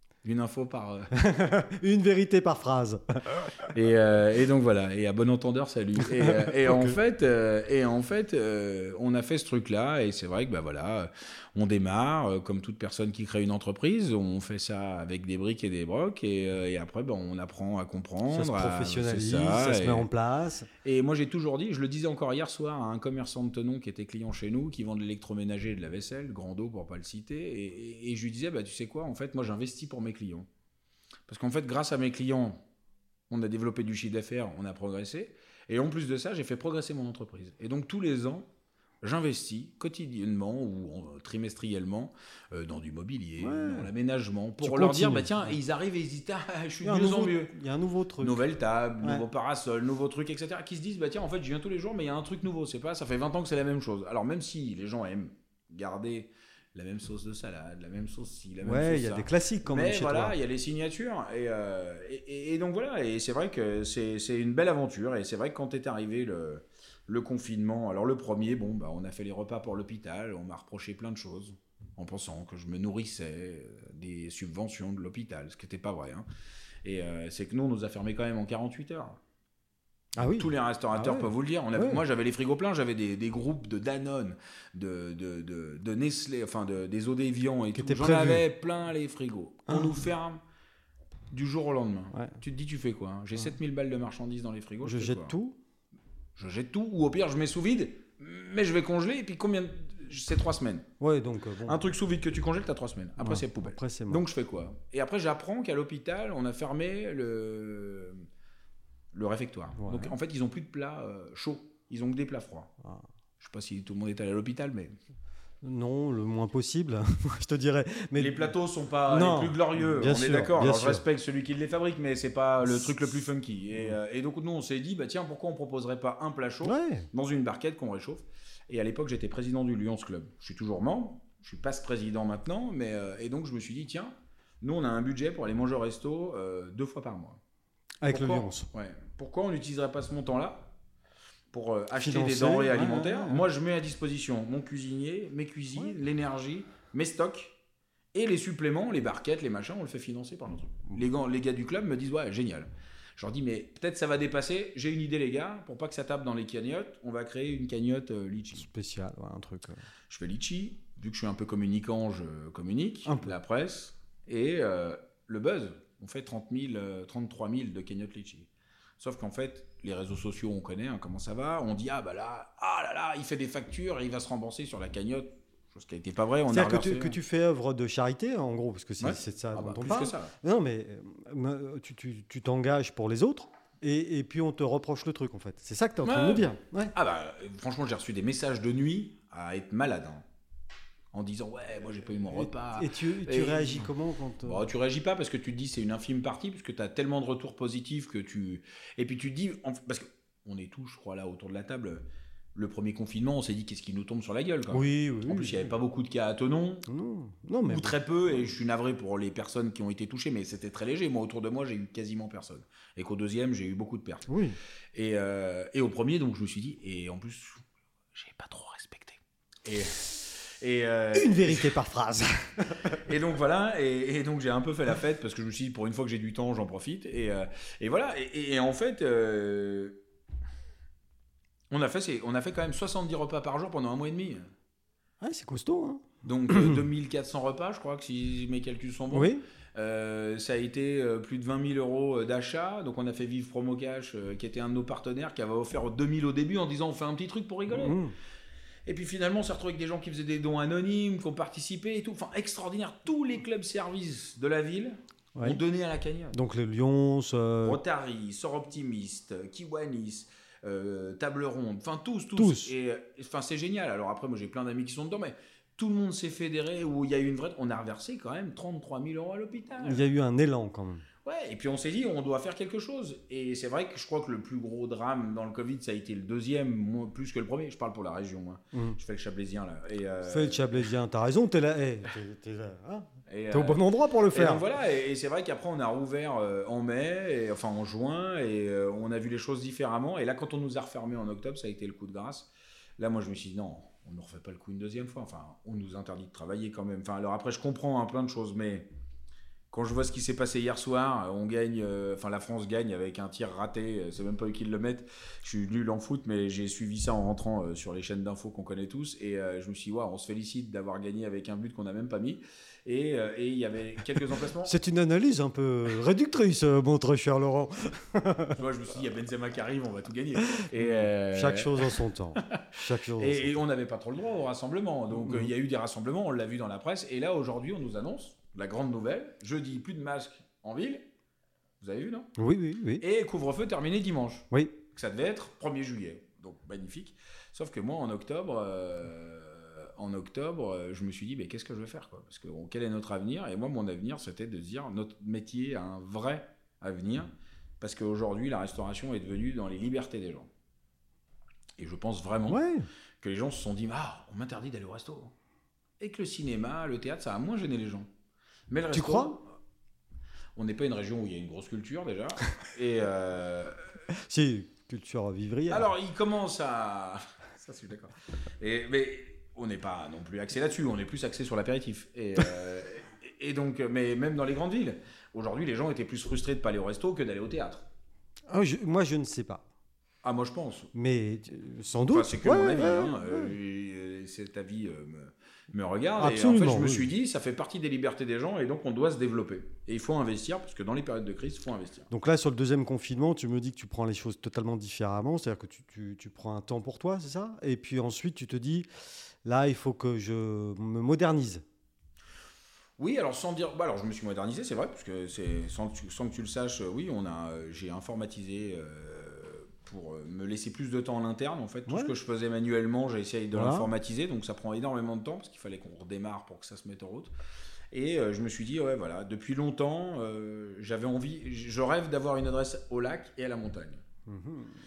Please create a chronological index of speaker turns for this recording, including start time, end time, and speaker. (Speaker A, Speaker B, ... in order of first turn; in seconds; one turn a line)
Speaker A: 0.2-1.1
Speaker B: 1.1-3.7
Speaker A: 3.7-20.1
Speaker B: 6.0-7.0
Speaker B: 18.3-20.7
Speaker A: 20.8-30.5
Speaker A: 31.3-32.6
Speaker A: 33.3-38.5
Speaker A: 39.0-47.5
Speaker B: 43.4-43.9
Speaker B: 44.6-45.5
Speaker B: 46.8-48.4
Speaker A: 48.2-76.2
Speaker B: 58.6-60.4
Speaker A: 76.8-79.2
Speaker B: 80.2-82.0
Speaker A: 80.2-90.4
Speaker B: 87.7-88.4
Speaker B: 89.7-90.0
Speaker A: 91.3-95.3
Speaker B: 94.8-95.6
Speaker A: 96.3-100.9
Speaker B: 101.0-101.8
Speaker A: 101.7-108.3
Speaker B: 103.2-104.2
Speaker A: 109.1-112.7
Speaker B: 109.8-110.1
Speaker A: 113.4-115.0
Speaker B: 115.6-118.5
Speaker A: 118.2-137.4
Speaker B: 119.1-121.0
Speaker B: 126.6-127.1
Speaker B: 138.0-138.7
Speaker A: 138.1-140.7
Speaker A: 141.5-147.6
Speaker B: 141.9-143.4
Speaker A: 148.1-158.7
Speaker B: 158.6-159.8
Speaker A: 160.1-177.2
Speaker B: 163.1-163.4
Speaker B: 176.5-186.9
Speaker A: 179.0-180.3
Speaker A: 186.0-190.2
Speaker A: 191.1-193.9
Speaker B: 192.3-194.7
Speaker A: 194.4-206.9
Speaker B: 204.7-205.7
Speaker B: 206.9-207.9
Speaker A: 207.7-214.3
Speaker B: 214.3-214.6
Speaker A: 214.9-217.6
Speaker A: 218.1-221.7
Speaker B: 221.1-223.0
Speaker A: 222.9-230.0
Speaker A: 231.7-234.5
Speaker B: 235.2-236.8
Speaker A: 236.2-248.0
Speaker B: 239.1-239.4
Speaker B: 247.7-248.1
Speaker A: 248.8-256.4
Speaker B: 255.3-255.6
Speaker B: 256.3-257.8
Speaker A: 257.6-270.1
Speaker B: 262.4-262.7
Speaker B: 269.8-271.0
Speaker A: 271.2-280.8
Speaker B: 280.2-284.6
Speaker A: 283.3-298.9
Speaker A: 299.7-314.7
Speaker B: 314.6-318.6
Speaker A: 318.5-331.0
Speaker B: 320.4-323.5
Speaker B: 325.2-325.5
Speaker A: 331.8-332.3
Speaker B: 332.4-333.0
Speaker A: 333.0-350.5
Speaker A: 351.8-352.6
Speaker B: 352.5-352.9
Speaker A: 353.2-355.3
Speaker A: 356.0-358.1
Speaker A: 358.7-359.5
Speaker B: 358.9-359.4
Speaker A: 360.6-363.8
Speaker B: 364.1-365.9
Speaker A: 365.7-377.9
Speaker B: 378.5-379.6
Speaker A: 380.2-380.9
Speaker B: 380.9-383.5
Speaker A: 382.1-392.1
Speaker B: 386.2-387.1
Speaker B: 392.1-398.9
Speaker B: 399.4-401.6
Speaker A: 403.0-417.3
Speaker B: 411.9-412.1
Speaker B: 413.5-413.9
Speaker A: 417.9-424.0
Speaker B: 424.3-424.8